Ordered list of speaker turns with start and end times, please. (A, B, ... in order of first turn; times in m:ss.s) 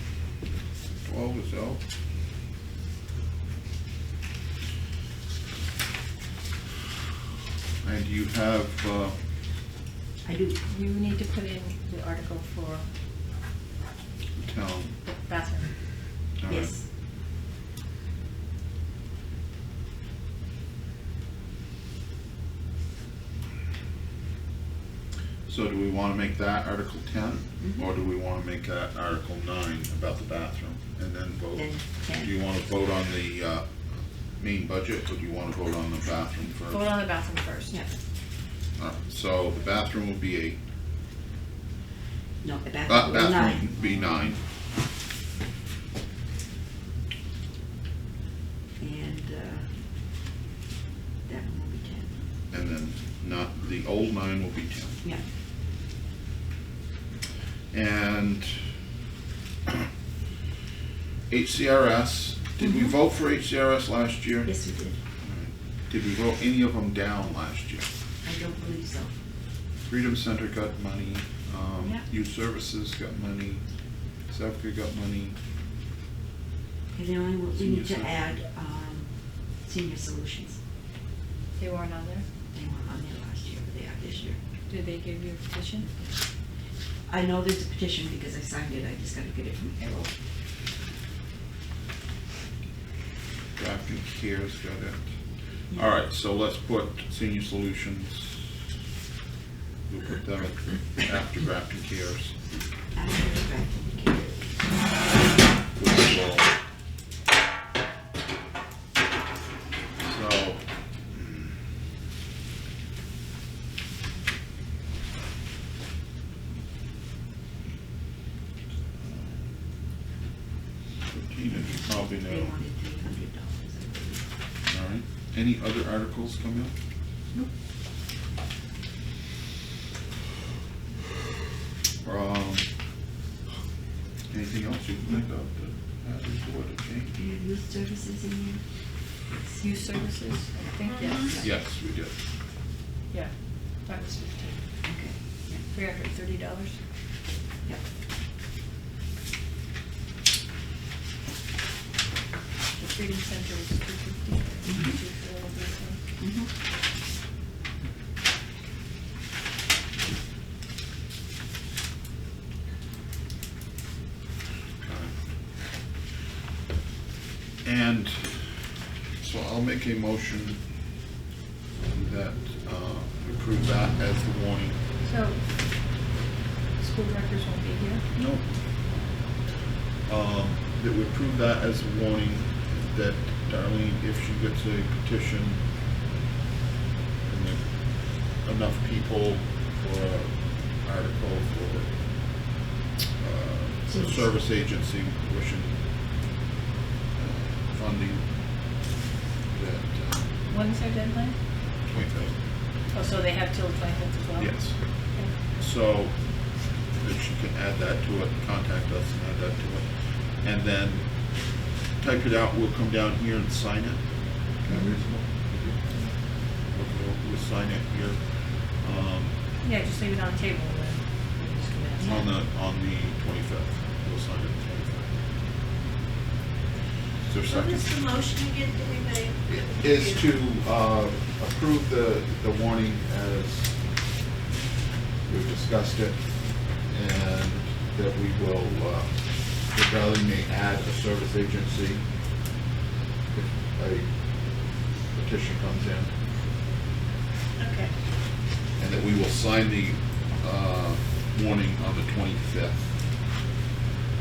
0:01.0-0:01.8 A
0:07.8-0:09.2 A
0:10.2-0:10.6 B
0:10.7-0:12.9 C
0:14.4-0:15.0 A
0:15.0-0:15.7 C
0:16.4-0:16.7 A
0:16.5-0:16.8 B
0:25.5-0:31.7 A
0:27.6-0:27.9 B
0:31.5-0:32.4 B
0:32.2-0:33.7 A
0:34.4-0:37.0 A
0:36.6-0:37.8 C
0:38.8-0:40.6 A
0:42.4-0:43.7 B
0:42.9-0:44.4 A
0:48.8-0:49.7 B
0:51.3-0:52.2 B
0:52.5-0:55.0 A
0:57.7-0:58.6 A
1:01.3-1:04.5 A
1:02.6-1:03.0 B
1:04.4-1:05.0 B
1:05.2-1:07.9 A
1:08.2-1:09.2 B
1:09.9-1:13.6 A
1:14.3-1:15.4 A
1:16.9-1:19.1 B
1:17.5-1:18.2 A
1:19.6-1:20.6 B
1:21.6-1:22.2 C
1:22.5-1:24.4 B
1:24.7-1:25.9 C
1:27.1-1:30.1 B
1:33.6-1:35.1 A
1:35.7-1:38.4 A
1:39.9-1:42.4 A
1:42.9-1:44.5 B
1:45.8-1:46.5 A
1:50.0-1:50.6 A
1:51.1-1:51.5 A
1:59.0-1:59.5 A
2:01.1-2:02.5 A
2:01.5-2:04.2 B
2:04.7-2:06.7 A
2:12.0-2:12.7 A
2:14.3-2:17.2 A
2:17.2-2:18.6 B
2:19.6-2:21.4 C
2:20.9-2:21.4 D
2:21.4-2:22.2 A
2:23.8-2:24.6 C
2:24.8-2:25.7 B
2:25.7-2:26.8 C
2:32.8-2:36.0 C
2:34.6-2:35.0 B
2:36.2-2:36.5 B
2:44.8-2:45.1 A
2:47.6-2:48.5 A
2:49.2-2:50.6 A
2:51.9-2:54.8 A
2:55.0-2:55.4 C
2:56.8-2:58.0 C
2:58.2-2:58.5 A
3:00.1-3:05.6 A
3:07.2-3:07.6 A
3:08.4-3:11.9 A
3:13.2-3:15.8 A
3:13.9-3:14.3 B
3:17.2-3:18.3 A
3:19.5-3:20.3 A
3:20.5-3:21.4 C
3:21.9-3:22.4 A
3:22.9-3:24.6 C
3:24.4-3:24.8 A
3:25.6-3:26.2 A
3:27.0-3:29.9 A
3:30.4-3:31.1 A
3:32.0-3:34.0 A
3:34.6-3:35.8 A
3:36.7-3:38.2 A
3:38.8-3:39.3 A
3:39.6-3:42.3 C
3:42.0-3:45.1 A
3:47.3-3:47.9 A
3:47.5-3:50.3 D
3:49.5-3:53.8 A
3:55.3-3:56.2 A
3:56.9-4:02.0 A
4:03.3-4:04.1 A
4:05.1-4:06.1 A
4:07.6-4:07.9 D
4:08.8-4:12.9 A